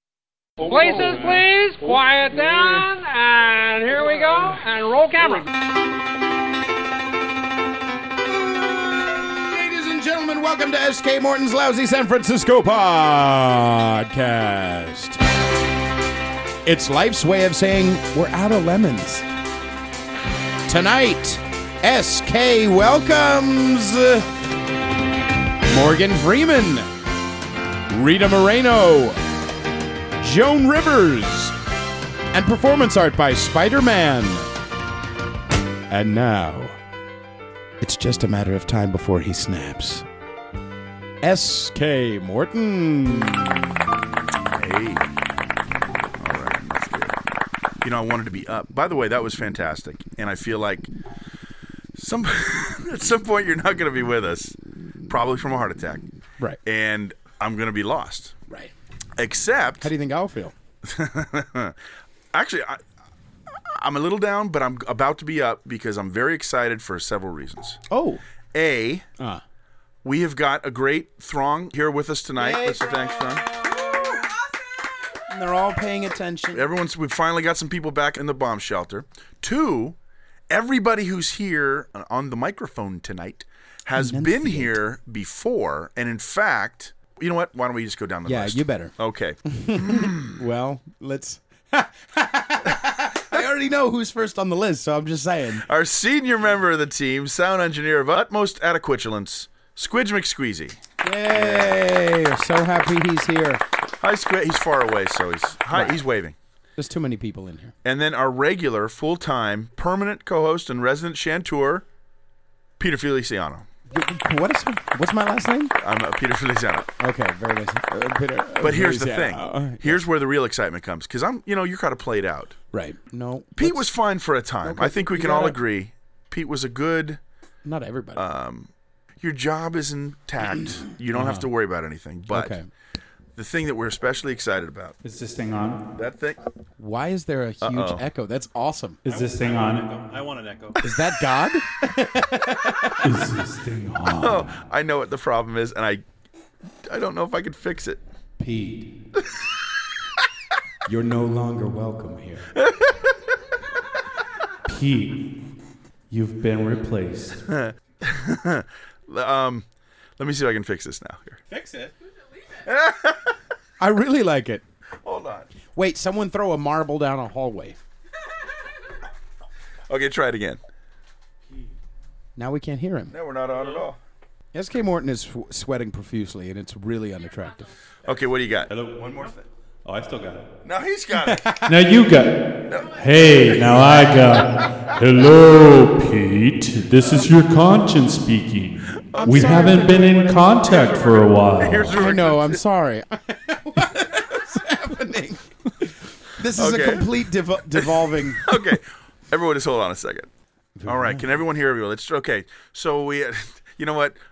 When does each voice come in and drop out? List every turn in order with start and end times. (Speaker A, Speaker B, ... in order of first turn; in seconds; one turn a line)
Speaker A: 0.6-5.5
Speaker B: 9.2-15.2
Speaker B: 16.6-19.3
Speaker B: 20.7-24.3
Speaker B: 25.7-26.9
Speaker B: 27.9-29.2
Speaker B: 30.2-31.6
Speaker B: 32.3-34.5
Speaker B: 35.9-36.8
Speaker B: 37.8-40.1
Speaker B: 41.2-43.7
Speaker C: 44.5-45.1
Speaker C: 46.2-47.2
Speaker C: 47.8-50.9
Speaker C: 52.0-56.1
Speaker C: 56.7-58.4
Speaker B: 58.5-58.7
Speaker C: 59.2-59.9
Speaker B: 59.8-60.5
Speaker C: 60.8-61.8
Speaker C: 62.3-62.8
Speaker C: 63.8-67.8
Speaker B: 67.9-68.2
Speaker C: 68.5-69.0
Speaker C: 70.0-73.5
Speaker B: 72.3-74.3
Speaker B: 75.3-76.7
Speaker C: 76.5-80.0
Speaker C: 80.5-90.4
Speaker B: 84.0-84.8
Speaker B: 88.2-89.0
Speaker B: 89.5-95.7
Speaker C: 95.7-100.8
Speaker B: 101.0-103.6
Speaker C: 101.3-101.8
Speaker C: 104.0-106.4
Speaker B: 105.7-106.0
Speaker B: 106.8-107.8
Speaker C: 107.8-111.8
Speaker C: 112.8-113.7
Speaker B: 113.9-115.7
Speaker C: 115.8-116.9
Speaker B: 117.0-120.0
Speaker C: 118.6-122.6
Speaker B: 122.7-123.9
Speaker C: 123.6-127.2
Speaker B: 124.6-125.6
Speaker B: 127.6-128.2
Speaker C: 128.2-132.6
Speaker B: 131.1-131.5
Speaker B: 132.3-132.7
Speaker C: 133.4-135.0
Speaker D: 135.0-135.8
Speaker C: 136.0-136.4
Speaker B: 136.8-139.0
Speaker C: 137.6-138.0
Speaker D: 139.1-139.9
Speaker E: 139.1-140.8
Speaker B: 140.8-143.1
Speaker D: 143.0-144.5
Speaker C: 144.2-146.0
Speaker C: 146.9-148.0
Speaker B: 148.4-148.9
Speaker B: 150.9-152.5
Speaker C: 152.6-153.1
Speaker D: 154.7-155.2
Speaker D: 156.1-157.4
Speaker C: 157.5-159.7
Speaker C: 160.2-161.4
Speaker E: 161.5-161.9
Speaker C: 162.7-163.4
Speaker B: 163.8-164.6
Speaker C: 165.0-165.5
Speaker B: 165.7-167.8
Speaker C: 169.9-170.6
Speaker B: 172.4-173.1
Speaker C: 173.1-174.0
Speaker B: 174.5-177.7
Speaker C: 178.1-179.5
Speaker E: 178.7-179.1
Speaker E: 179.8-180.4
Speaker C: 180.6-181.5
Speaker B: 181.2-181.7
Speaker D: 181.7-192.0
Speaker C: 182.7-183.7
Speaker C: 189.1-189.9
Speaker B: 189.2-190.9
Speaker C: 190.7-192.6
Speaker B: 191.9-198.7
Speaker C: 196.5-197.1
Speaker C: 197.8-200.3
Speaker B: 200.8-201.3
Speaker C: 200.9-204.2